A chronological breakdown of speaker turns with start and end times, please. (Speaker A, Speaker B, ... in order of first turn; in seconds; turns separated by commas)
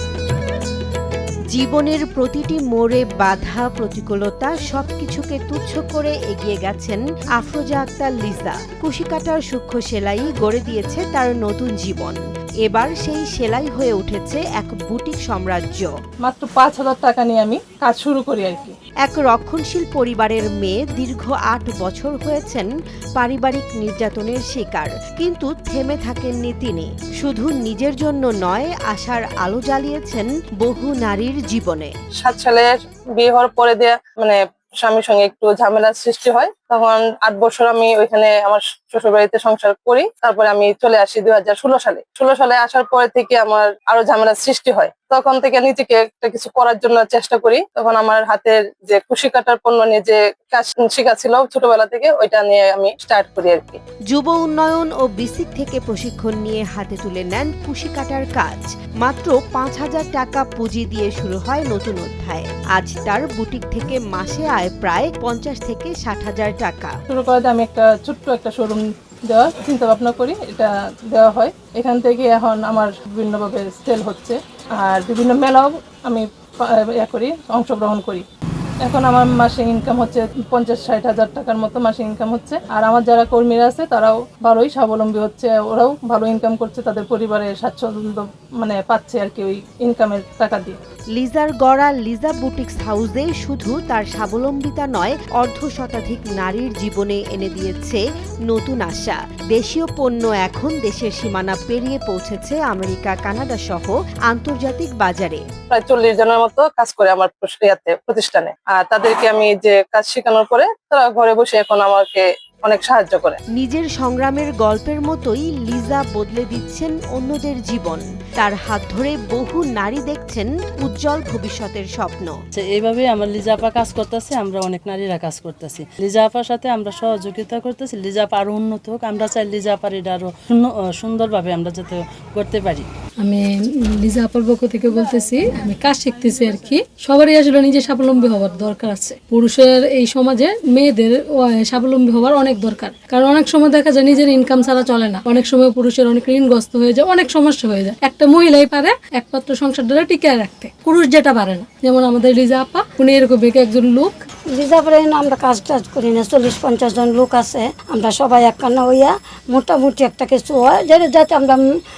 Speaker A: 1.5-15.9, Speaker B: 16.2-18.8, Speaker A: 19.1-31.9, Speaker C: 32.2-32.7, Speaker C: 33.2-53.8, Speaker A: 54.1-66.9, Speaker B: 67.1-78.2, Speaker B: 78.8-90.8, Speaker A: 91.2-105.4, Speaker C: 105.7-113.4, Speaker A: 113.5-122.3, Speaker D: 122.6-132.9, Speaker E: 133.2-154.1, Speaker F: 154.5-161.7